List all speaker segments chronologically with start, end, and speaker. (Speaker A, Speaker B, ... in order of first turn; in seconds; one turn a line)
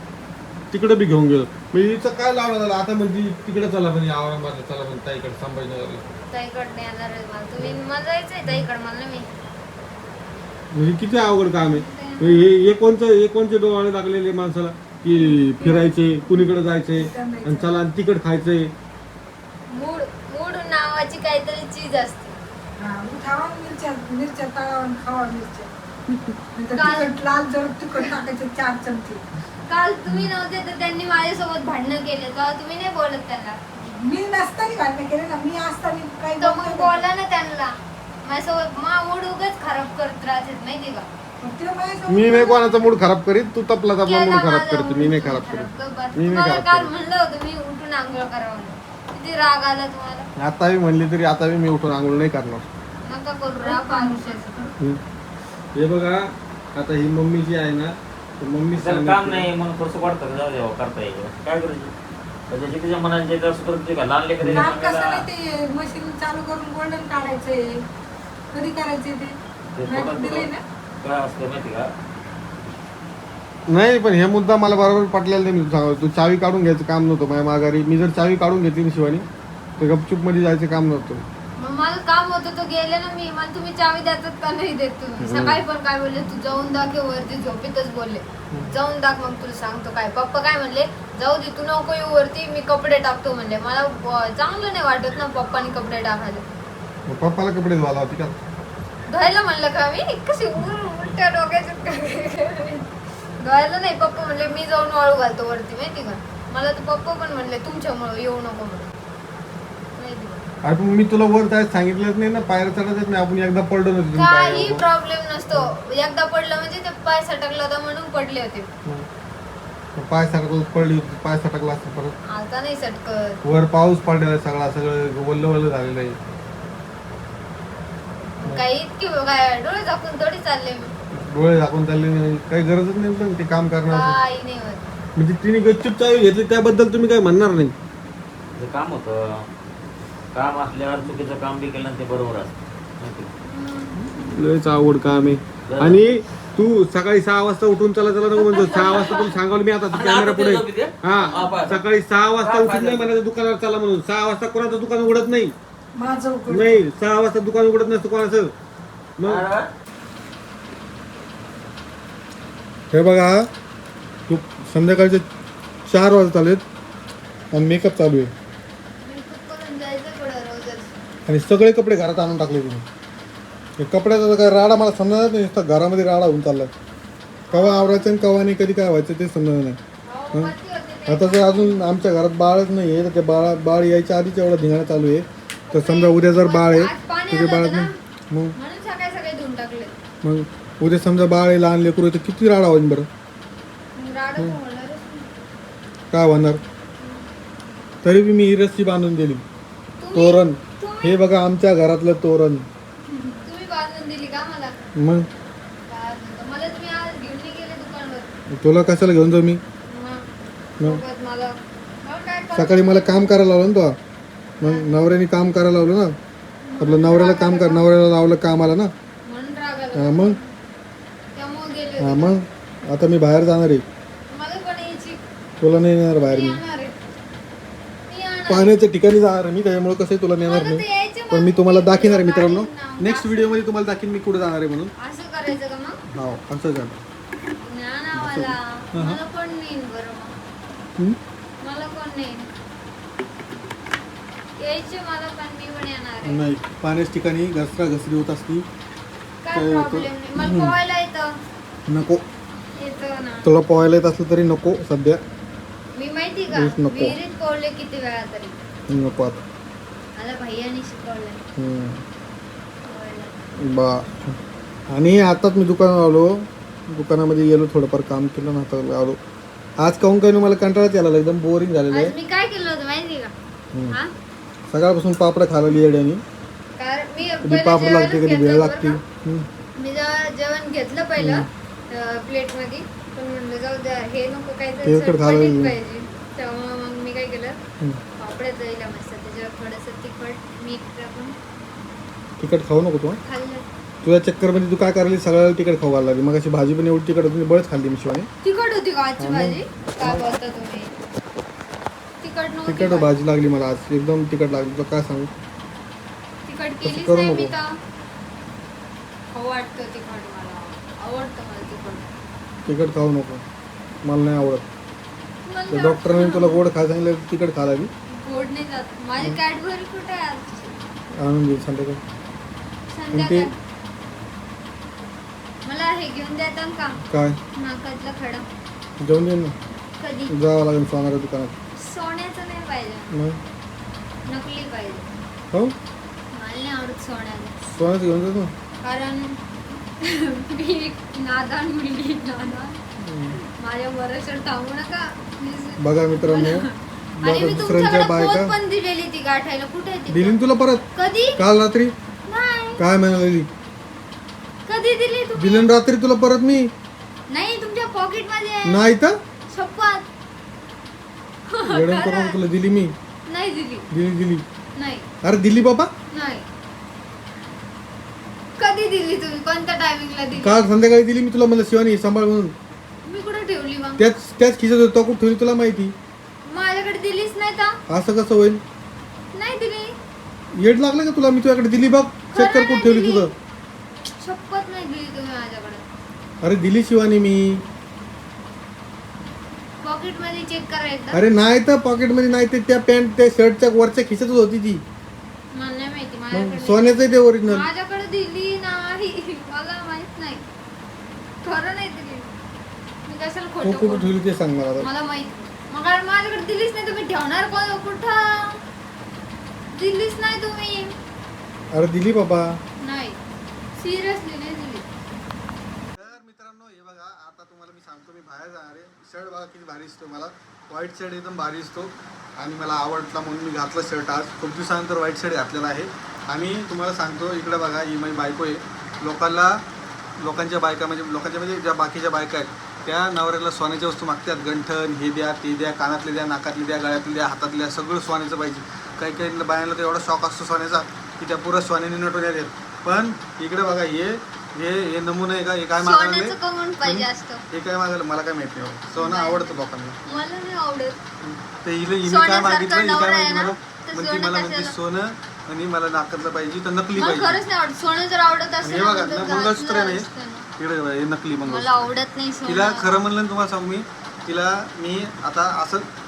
Speaker A: 0.7-6.0
Speaker B: 6.3-9.3
Speaker A: 10.7-18.7
Speaker B: 11.6-12.4
Speaker C: 15.1-17.8
Speaker B: 19.7-22.3
Speaker C: 22.8-25.7
Speaker C: 26.6-29.2
Speaker B: 26.7-27.1
Speaker B: 29.7-33.6
Speaker C: 33.8-37.0
Speaker B: 36.4-41.1
Speaker C: 41.4-42.6
Speaker A: 42.1-46.9
Speaker B: 44.0-50.3
Speaker A: 50.4-52.6
Speaker B: 53.0-54.7
Speaker C: 53.5-54.4
Speaker A: 55.8-59.5
Speaker D: 58.7-61.9
Speaker D: 62.5-65.3
Speaker A: 64.4-64.7
Speaker C: 64.5-67.8
Speaker C: 68.5-69.3
Speaker D: 69.7-71.9
Speaker C: 69.8-70.6
Speaker A: 73.7-79.2
Speaker A: 79.8-81.2
Speaker B: 81.6-96.5
Speaker A: 85.2-85.6
Speaker A: 88.5-88.8
Speaker A: 97.1-98.4
Speaker B: 99.1-108.9
Speaker B: 110.0-110.4
Speaker A: 110.6-114.8
Speaker B: 114.1-118.7
Speaker A: 119.9-122.1
Speaker B: 122.3-123.4
Speaker A: 123.4-126.2
Speaker B: 128.4-130.9
Speaker A: 131.1-134.2
Speaker B: 133.9-134.9
Speaker A: 135.2-137.7
Speaker D: 138.5-139.5
Speaker D: 140.3-143.3
Speaker B: 143.4-144.0
Speaker A: 143.9-155.5
Speaker D: 145.7-146.0
Speaker B: 148.4-149.3
Speaker D: 148.6-149.3
Speaker D: 149.9-151.8
Speaker B: 151.1-151.4
Speaker D: 152.4-153.1
Speaker C: 155.9-156.8
Speaker A: 156.5-158.5
Speaker A: 159.2-159.4
Speaker D: 159.2-159.7
Speaker A: 162.9-163.5
Speaker A: 164.3-165.2
Speaker A: 165.9-166.6
Speaker A: 167.5-168.3
Speaker B: 169.0-170.9
Speaker A: 171.2-172.8
Speaker A: 173.8-176.7
Speaker B: 177.5-178.2
Speaker A: 177.5-179.8
Speaker B: 180.1-181.9
Speaker A: 181.1-188.5
Speaker B: 185.7-187.9
Speaker B: 188.6-189.9
Speaker A: 190.2-193.1
Speaker B: 193.9-195.3
Speaker A: 196.1-196.6
Speaker B: 197.0-197.3
Speaker A: 198.0-199.4
Speaker B: 200.0-201.2
Speaker A: 200.1-202.7
Speaker B: 203.4-204.8
Speaker A: 204.9-205.3
Speaker B: 205.9-208.3
Speaker A: 208.5-209.6
Speaker B: 209.9-210.2
Speaker B: 210.8-213.2
Speaker A: 212.5-214.0
Speaker A: 214.6-216.1
Speaker B: 214.6-214.9
Speaker B: 216.6-217.8
Speaker A: 216.8-218.9
Speaker B: 219.2-220.5
Speaker A: 219.9-220.4
Speaker B: 221.3-222.3
Speaker A: 222.0-223.8
Speaker B: 224.3-225.2
Speaker A: 225.6-226.6
Speaker B: 226.2-226.9
Speaker B: 228.1-228.7
Speaker A: 228.5-234.9
Speaker B: 230.4-233.6
Speaker B: 235.0-236.0
Speaker A: 236.1-237.0
Speaker B: 237.6-240.3
Speaker A: 238.1-239.2
Speaker B: 241.6-242.5
Speaker B: 244.6-246.4
Speaker A: 246.2-248.6
Speaker B: 249.4-251.4
Speaker A: 249.5-250.7
Speaker A: 251.9-252.2
Speaker B: 252.8-253.5
Speaker A: 253.4-255.2
Speaker B: 255.9-258.6
Speaker A: 256.5-257.2
Speaker A: 258.9-259.4
Speaker B: 260.2-261.4
Speaker A: 261.6-262.0
Speaker B: 262.8-263.3
Speaker A: 263.6-264.4
Speaker A: 264.9-269.2
Speaker A: 269.8-272.1
Speaker B: 271.9-273.3
Speaker A: 273.7-274.0
Speaker A: 274.7-276.2
Speaker B: 276.8-279.0
Speaker A: 277.4-279.5
Speaker B: 279.8-287.6
Speaker A: 281.2-281.5
Speaker A: 284.8-285.8
Speaker B: 288.2-291.4
Speaker A: 292.4-293.2
Speaker B: 293.2-293.6
Speaker A: 294.0-298.3
Speaker B: 298.4-300.9
Speaker A: 299.2-300.2
Speaker B: 302.2-303.1
Speaker A: 302.6-305.3
Speaker B: 306.4-307.8
Speaker A: 306.8-307.5
Speaker B: 309.3-312.1
Speaker A: 312.6-313.4
Speaker A: 314.0-314.6
Speaker B: 315.4-316.6
Speaker A: 315.7-317.9
Speaker B: 318.1-320.8
Speaker A: 321.2-322.0
Speaker B: 322.9-323.5
Speaker A: 323.1-323.5
Speaker B: 325.6-327.0
Speaker A: 327.1-327.4
Speaker B: 327.6-328.5
Speaker A: 329.0-329.5
Speaker B: 330.0-330.3
Speaker A: 330.3-331.5
Speaker B: 331.8-333.1
Speaker A: 333.1-333.4
Speaker B: 334.3-335.0
Speaker B: 336.3-337.5
Speaker A: 337.7-338.5
Speaker B: 338.8-342.8
Speaker A: 343.0-343.4
Speaker B: 343.3-350.4
Speaker A: 345.8-346.7
Speaker A: 347.2-348.5
Speaker A: 350.1-350.8
Speaker B: 350.9-351.4
Speaker A: 351.4-351.9
Speaker B: 352.3-352.8
Speaker A: 352.8-353.5
Speaker B: 354.7-355.7
Speaker A: 355.4-356.7
Speaker B: 357.3-358.8
Speaker A: 358.6-359.1
Speaker B: 359.5-360.1
Speaker B: 361.5-362.4
Speaker A: 361.7-362.9
Speaker B: 363.3-363.9
Speaker A: 363.9-364.4
Speaker B: 364.8-365.1
Speaker A: 365.2-365.9
Speaker B: 366.1-366.4
Speaker B: 368.6-370.6
Speaker A: 370.4-372.5
Speaker B: 373.0-374.0
Speaker A: 374.0-375.9
Speaker B: 376.4-377.8
Speaker A: 377.9-378.6
Speaker B: 379.3-379.9
Speaker A: 380.5-383.3
Speaker B: 382.3-383.3
Speaker B: 384.0-385.8
Speaker A: 386.4-387.6
Speaker B: 389.8-391.2
Speaker A: 391.1-394.8
Speaker B: 395.5-400.4
Speaker A: 396.3-397.7
Speaker B: 401.4-402.3
Speaker B: 403.0-404.1
Speaker A: 403.6-404.9
Speaker B: 404.8-408.6
Speaker B: 409.7-410.9
Speaker A: 411.7-412.6
Speaker B: 412.8-413.2
Speaker B: 413.8-414.8
Speaker A: 415.9-429.6
Speaker A: 430.2-450.0
Speaker B: 445.8-447.4
Speaker B: 448.9-449.5
Speaker B: 450.1-451.0
Speaker A: 451.2-457.4
Speaker B: 452.0-454.7
Speaker B: 456.9-460.5
Speaker A: 458.6-461.9
Speaker B: 461.4-462.9
Speaker A: 462.4-465.9